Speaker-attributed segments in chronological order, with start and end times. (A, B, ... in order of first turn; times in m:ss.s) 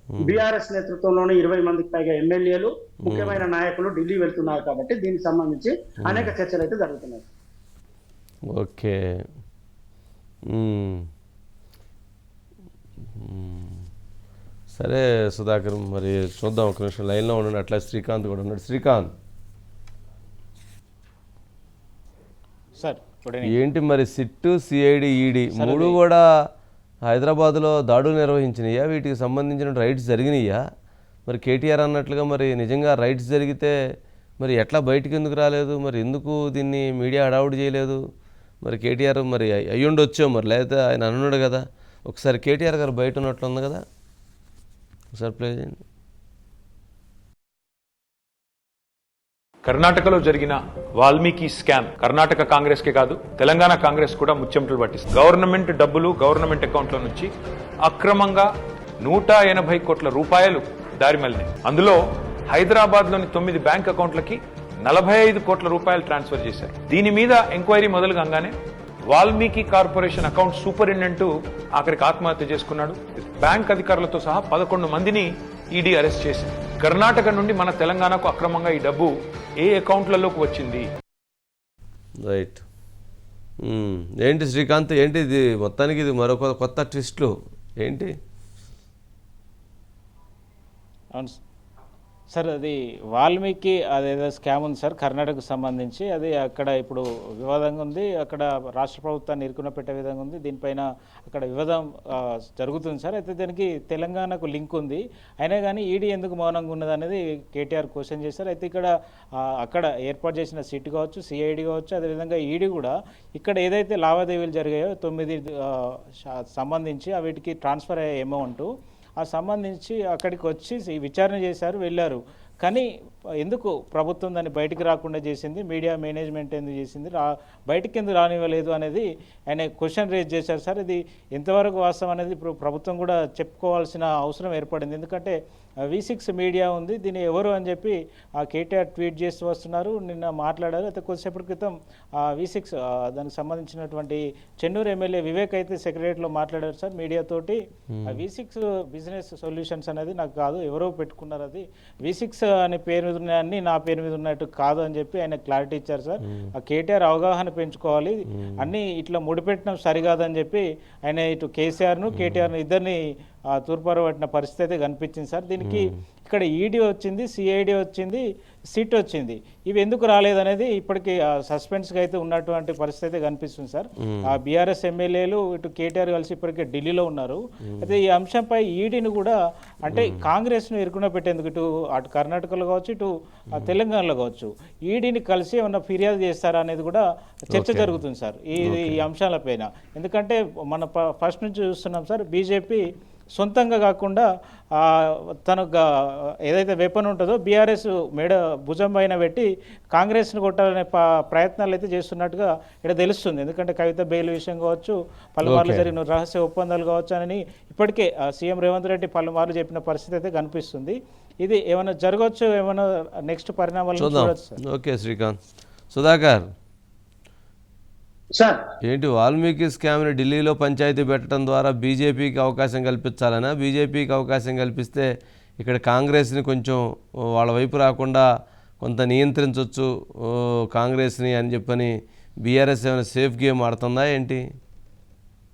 0:00.1-0:00.4 A
0:00.2-0:07.2 B
0:03.0-0:03.4 A
0:06.0-0:06.3 A
0:08.5-0:09.0 A
0:10.5-0:11.0 A
0:13.2-0:13.8 A
0:14.7-0:19.1 A
0:22.8-0:23.6 C
0:23.4-0:26.2 A
0:25.6-0:26.0 C
0:27.1-0:30.6 A
0:31.3-0:33.8 A
0:34.4-0:38.0 A
0:38.6-0:43.8 A
0:45.2-0:45.8 A
0:49.6-0:57.3 D
0:57.8-0:58.5 D
0:59.0-1:08.5 D
1:09.1-1:20.9 D
1:22.2-1:22.6 A
1:23.6-1:28.1 A
1:32.3-1:58.7 C
1:59.2-2:02.9 C
2:03.4-2:15.4 C
2:15.9-2:43.0 C
2:27.9-2:28.2 A
2:38.4-2:38.7 A
2:42.1-2:42.5 A
2:43.6-3:12.8 C
2:45.6-2:45.9 A
2:54.0-2:54.4 A
2:57.7-2:58.0 A
2:59.9-3:00.3 A
3:07.5-3:08.0 A
3:08.6-3:09.0 A
3:13.4-3:15.8 C
3:16.5-3:34.6 C
3:25.4-3:25.9 A
3:34.0-3:35.4 A
3:35.9-3:36.5 A
3:38.8-3:45.1 A
3:45.6-3:46.8 A
3:47.3-3:48.3 A
3:48.8-3:51.9 A
3:52.4-3:54.4 A